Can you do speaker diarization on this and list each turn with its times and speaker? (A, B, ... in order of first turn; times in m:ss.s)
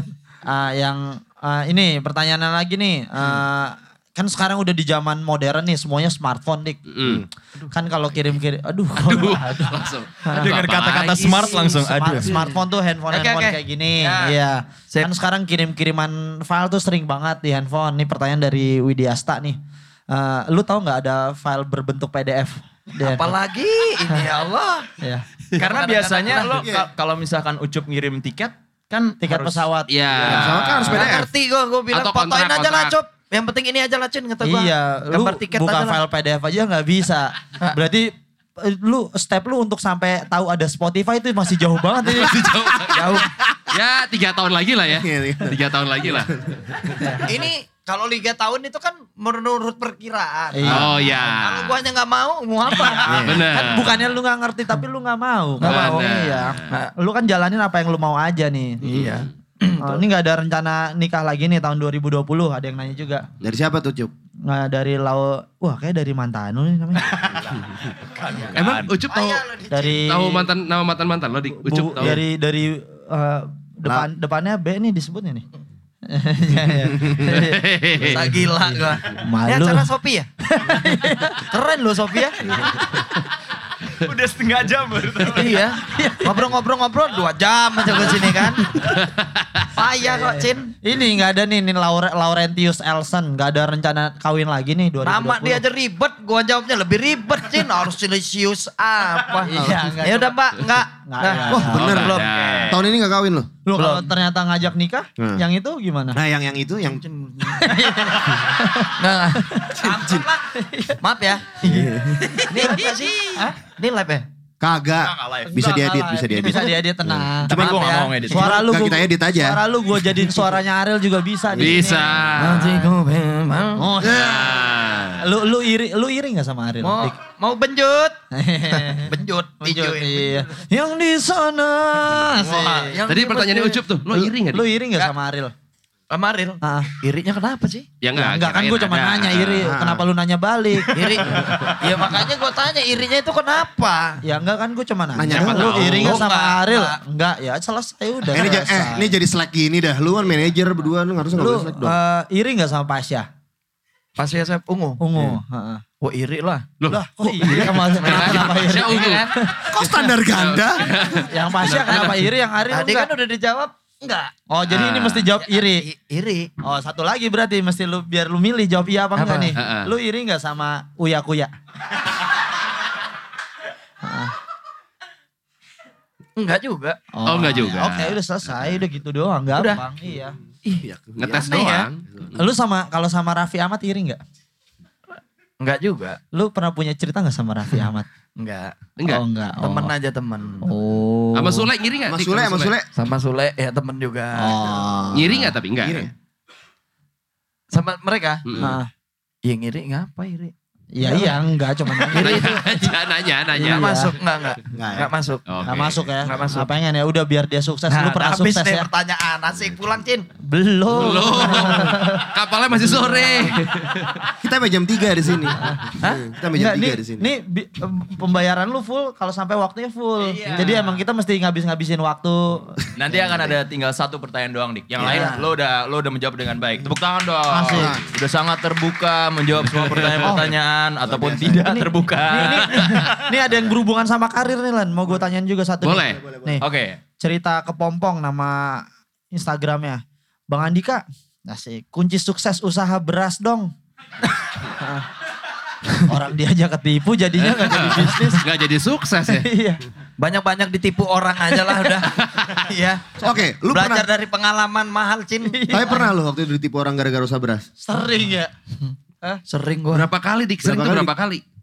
0:00.4-0:06.8 A
0:06.9-0:07.2 B
0:07.7-0:10.6 A
0:08.9-0:11.5 B
0:10.3-0:12.4 C
0:11.2-0:19.6 A
0:12.2-0:12.6 D
0:13.1-0:14.4 D
0:20.1-0:23.3 A
0:23.0-0:24.9 D
0:25.6-0:26.6 D
0:25.6-0:30.9 C
0:26.6-0:26.9 E
0:29.2-0:29.9 A
0:29.9-0:31.1 B
0:30.2-0:31.3 E
0:30.8-0:36.0 D
0:31.9-0:33.0 B
0:34.4-0:42.6 A
0:42.0-0:46.9 B
0:42.9-0:43.3 D
0:44.9-0:47.2 E
0:47.0-0:47.3 A
0:47.2-0:53.2 D
0:50.5-0:51.1 A
0:50.6-0:51.7 B
0:50.7-0:51.0 E
0:53.1-0:53.5 E
0:53.1-0:54.1 B
0:53.5-0:58.9 A
0:55.6-0:56.1 D
0:55.6-0:56.7 B
0:58.8-1:00.0 D
0:59.0-0:59.2 B
0:59.8-1:03.3 A
1:03.4-1:04.1 E
1:04.5-1:07.2 A
1:08.2-1:09.0 C
1:08.6-1:12.2 B
1:09.1-1:10.0 D
1:09.7-1:10.5 A
1:11.6-1:15.4 A
1:16.1-1:19.9 A
1:16.9-1:17.3 E
1:17.2-1:18.3 B
1:18.0-1:20.3 D
1:20.4-1:21.4 A
1:21.4-1:22.4 D
1:23.9-1:25.7 C
1:25.3-1:28.7 D
1:25.8-1:26.5 A
1:28.0-1:28.6 A
1:28.9-1:29.7 B
1:29.7-1:30.7 D
1:30.0-1:35.6 A
1:35.0-1:42.2 D
1:39.4-1:40.4 A
1:39.5-1:39.9 E
1:41.1-1:42.1 A
1:41.5-1:43.5 E
1:41.7-1:42.8 B
1:42.1-1:42.8 C
1:43.6-1:46.2 A
1:43.8-1:44.1 D
1:45.2-1:45.4 E
1:46.1-1:47.0 E
1:46.8-1:47.8 D
1:47.6-1:49.0 A
1:48.8-1:50.5 D
1:49.5-1:49.9 A
1:49.8-1:50.3 E
1:50.5-1:51.0 A
1:51.0-1:51.9 D
1:51.6-1:52.4 E
1:52.5-1:54.2 D
1:52.5-1:53.6 A
1:54.6-1:59.6 E
1:55.0-1:55.6 C
1:55.5-2:02.9 A
1:57.5-1:58.6 C
1:57.6-1:58.3 D
2:01.5-2:02.8 B
2:01.6-2:01.9 E
2:02.4-2:03.9 D
2:03.8-2:04.5 A
2:04.0-2:05.2 B
2:05.2-2:07.1 A
2:06.8-2:08.2 D
2:08.3-2:13.0 A
2:08.7-2:10.5 D
2:12.4-2:13.8 D
2:13.1-2:14.7 B
2:14.1-2:15.5 A
2:16.1-2:17.9 D
2:16.6-2:16.9 A
2:18.0-2:19.7 B
2:18.2-2:21.5 A
2:19.6-2:20.1 E
2:20.9-2:24.2 D
2:21.3-2:21.6 E
2:24.2-2:29.1 A
2:25.1-2:26.2 E
2:25.3-2:26.2 B
2:25.3-2:27.0 D
2:28.3-2:32.0 E
2:31.4-2:33.3 A
2:34.2-2:35.0 D
2:35.0-2:35.8 A
2:36.0-2:36.7 D
2:36.8-2:39.3 B
2:36.9-2:40.2 A
2:37.5-2:39.3 D
2:39.7-2:40.9 E
2:40.3-2:42.3 B
2:41.2-2:43.1 A
2:42.7-2:44.3 D
2:44.5-2:45.8 A
2:44.7-2:45.3 B
2:45.4-2:46.5 D
2:46.6-2:51.5 A
2:49.2-2:49.6 D
2:49.6-2:49.9 B
2:54.0-2:54.4 A
2:56.4-2:57.0 D
2:57.1-3:00.4 A
2:57.2-2:58.8 B
2:59.6-2:59.8 D
3:00.7-3:01.9 D
3:00.7-3:01.6 E
3:01.2-3:02.4 B
3:02.4-3:04.2 A
3:05.6-3:06.2 D
3:06.3-3:08.1 A
3:08.4-3:08.8 D
3:09.0-3:09.2 B
3:09.1-3:09.9 A
3:09.6-3:10.7 D
3:10.6-3:11.7 A
3:11.3-3:12.7 B
3:12.1-3:12.9 E
3:12.9-3:14.6 D
3:14.4-3:15.5 A
3:14.8-3:16.1 E
3:15.1-3:16.1 B
3:17.7-3:18.4 D
3:18.5-3:18.8 B
3:18.6-3:18.9 A
3:19.4-3:21.4 D
3:20.9-3:22.9 A
3:21.9-3:22.8 D
3:22.1-3:24.0 B
3:23.6-3:24.2 A
3:23.6-3:25.5 D
3:24.7-3:25.1 E
3:25.5-3:26.4 B
3:25.7-3:28.9 A
3:26.2-3:26.7 D
3:27.9-3:30.3 D
3:30.4-3:32.3 A
3:30.9-3:34.2 B
3:32.8-3:33.6 A
3:34.4-3:37.3 E
3:35.6-3:35.9 A
3:36.0-3:36.3 D
3:36.5-3:42.8 A
3:40.3-3:40.9 D
3:40.4-3:40.8 C
3:43.0-3:53.1 C
3:45.0-3:45.2 E
3:45.0-3:45.4 A
3:47.5-3:48.0 A
3:47.7-3:48.1 E
3:49.9-3:50.2 B
3:50.2-3:50.6 A
3:51.0-3:51.7 E
3:51.5-3:56.6 A
3:53.5-3:53.8 E
3:55.8-3:56.2 B
3:56.1-3:56.6 E
3:56.6-3:57.0 C
3:57.2-4:03.7 A
4:04.7-4:05.1 A
4:06.0-4:08.4 A
4:07.4-4:09.5 B
4:09.3-4:09.8 A
4:10.2-4:15.8 D
4:12.2-4:12.6 B
4:13.2-4:14.1 E
4:15.5-4:16.1 A
4:15.7-4:17.7 E
4:17.8-4:18.5 A
4:19.5-4:20.1 D
4:19.9-4:21.4 B
4:20.6-4:21.1 E